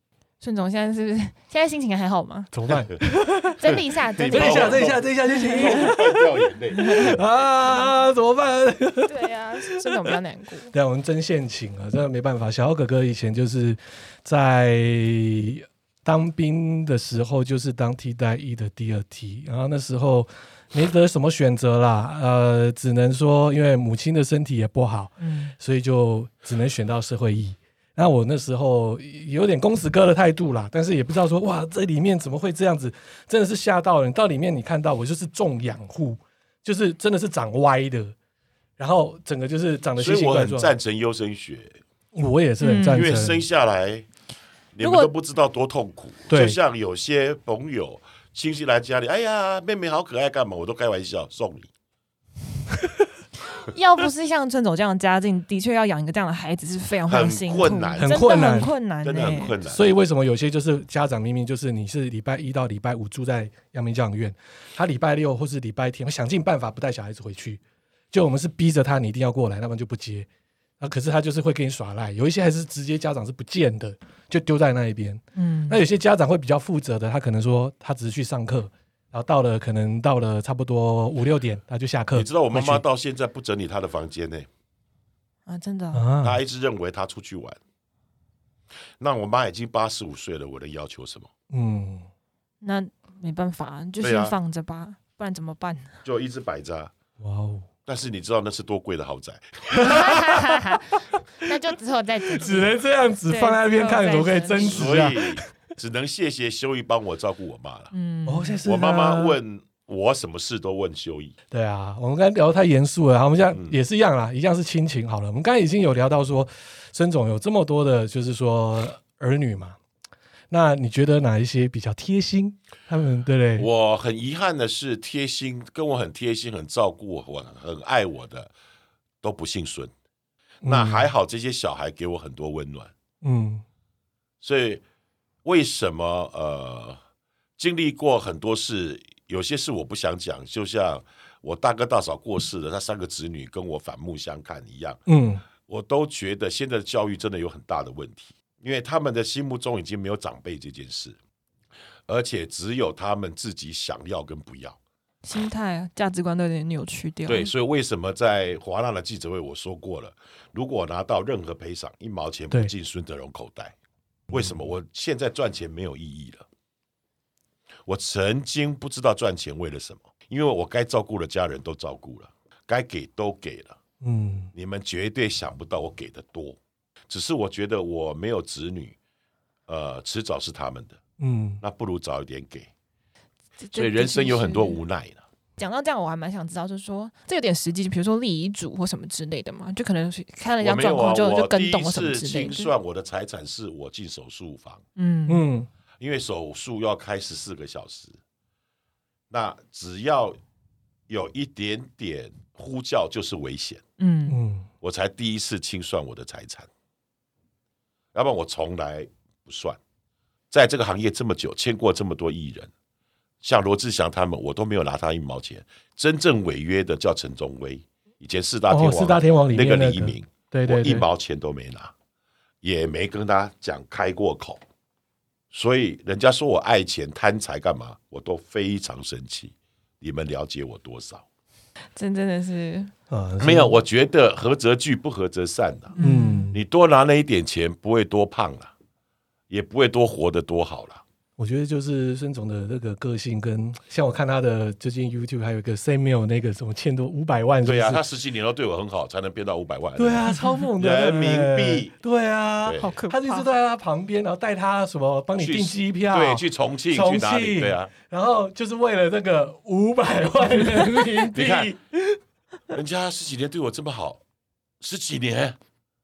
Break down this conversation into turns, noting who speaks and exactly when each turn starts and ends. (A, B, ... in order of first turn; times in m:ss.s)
0:00.4-0:02.5 A
0:02.5-0:03.6 B
0:03.6-0:06.0 A
0:03.6-0:07.2 C
0:04.3-0:06.2 B
0:06.8-0:10.1 B
0:06.8-0:07.2 A
0:09.1-0:10.7 A
0:10.7-0:38.2 B
0:25.2-0:25.5 A
0:38.8-0:40.7 B
0:40.0-0:41.8 C
0:42.1-0:43.4 B
0:42.6-0:43.1 A
0:42.9-0:44.1 C
0:44.7-0:51.7 C
0:44.8-0:45.1 A
0:46.3-0:46.6 B
0:53.6-0:59.6 A
0:57.1-0:58.2 C
0:58.0-0:58.7 B
0:59.0-0:59.8 C
0:59.6-1:07.6 B
1:08.1-1:10.3 B
1:10.8-1:22.8 B
1:15.4-1:15.8 A
1:22.1-1:24.5 C
1:25.5-1:26.1 A
1:25.9-1:26.4 B
1:26.2-1:27.6 C
1:29.0-1:31.3 C
1:31.5-1:32.1 B
1:32.6-1:36.0 A
1:34.0-1:34.4 C
1:36.0-1:36.9 C
1:37.2-1:37.7 B
1:37.9-1:40.4 C
1:39.8-1:42.7 A
1:42.3-1:45.5 B
1:43.3-1:45.1 A
1:44.6-1:47.9 C
1:47.9-1:48.6 A
1:48.3-1:49.4 B
1:48.6-1:51.4 C
1:51.5-1:59.8 B
1:53.5-1:53.8 C
2:00.5-2:03.7 B
2:03.6-2:08.5 C
2:09.2-2:09.9 C
2:10.6-2:11.1 B
2:10.6-2:12.9 C
2:13.2-2:13.6 B
2:14.4-2:14.8 C
2:15.4-2:17.0 C
2:17.6-2:25.0 C
2:25.1-2:25.4 B
2:25.6-2:31.2 C
2:32.1-2:34.8 C
2:35.2-2:37.5 A
2:37.3-2:43.7 C
2:44.3-2:46.5 C
2:47.9-2:53.8 C
2:54.0-2:54.5 B
2:54.5-2:56.6 C
2:57.1-2:59.0 C
2:59.7-3:01.0 C
3:01.2-3:01.6 B
3:01.6-3:02.7 C
3:03.6-3:04.8 A
3:03.7-3:05.2 C
3:05.6-3:12.7 A
3:10.6-3:14.8 C
3:15.0-3:15.4 A
3:15.3-3:15.7 B
3:16.0-3:18.2 C
3:19.3-3:20.4 C
3:21.1-3:23.8 C
3:24.0-3:24.4 A
3:24.3-3:24.7 B
3:24.8-3:26.7 C
3:28.1-3:29.8 C
3:30.5-3:32.7 C
3:33.4-3:41.9 C
3:38.7-3:41.1 B
3:42.6-3:44.6 C
3:45.5-3:51.2 C
3:52.0-3:52.9 A
3:53.1-3:53.8 B
3:53.4-3:56.0 C
3:56.0-3:56.5 A
3:56.0-3:56.6 B
3:56.5-3:58.7 C
3:59.5-4:01.0 C
4:01.4-4:08.0 B
4:07.6-4:12.0 C
4:10.0-4:22.2 B
4:12.6-4:13.0 C
4:12.8-4:13.5 A
4:15.4-4:17.9 C
4:21.3-4:21.8 C
4:22.7-4:24.2 C
4:24.8-4:25.6 C